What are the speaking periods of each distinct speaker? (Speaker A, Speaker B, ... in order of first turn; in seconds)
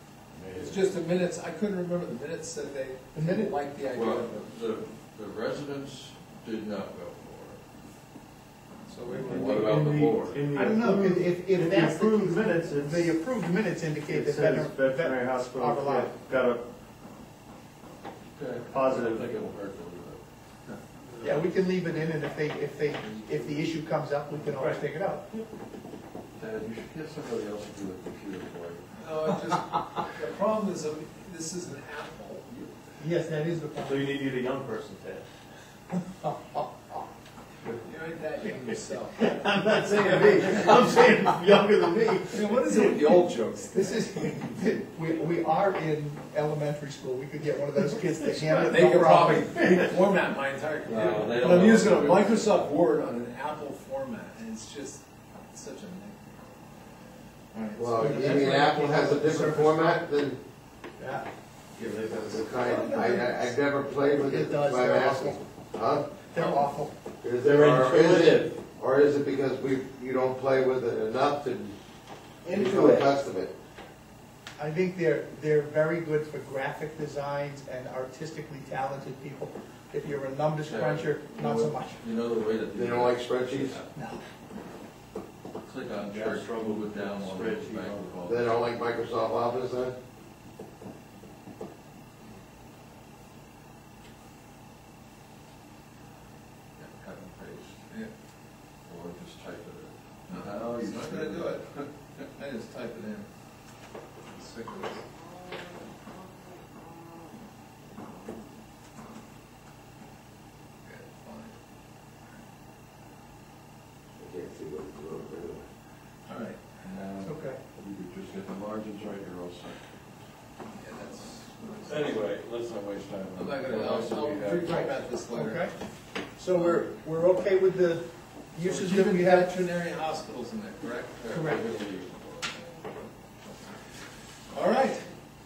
Speaker A: 0.3-0.8, 3.9-7.6, 9.1-10.4, 18.4-20.2, 23.0-23.6, 26.4-28.9, 50.9-52.6, 80.6-83.9, 85.6-88.5, 96.8-97.8, 98.8-101.9, 116.8-119.8, 121.8-124.9, 131.2-132.6
Speaker B: 0.5-4.7, 8.9-9.7, 29.0-32.5, 37.8-39.4, 40.1-40.7, 42.3-44.6, 48.6-56.4, 57.5-58.2, 62.0-62.4, 100.3-101.7, 102.3-103.3, 104.3-105.1, 110.8-111.6, 116.3-116.8, 120.8-122.2, 123.3-125.7, 126.5-126.9, 128.6-131.3, 134.5-135.1
Speaker C: 3.1-3.5, 10.5-16.1, 21.2-25.2, 33.0-34.0, 43.7-49.5, 57.9-60.0, 61.0-61.3, 62.6-63.5, 64.2-65.5, 66.2-67.0, 74.6-82.0, 83.9-84.2, 117.2-117.6, 125.3-125.7, 126.4-129.5, 131.3-131.7
Speaker D: 9.2-13.2, 14.1-16.6, 18.7-19.3, 33.8-35.2, 39.2-43.0, 67.4-68.6, 72.5-73.1, 86.0-88.2
Speaker E: 57.8-60.4, 62.1-66.2, 67.2-71.8, 72.5-73.5, 82.7-83.8, 88.2-90.0, 114.2-115.7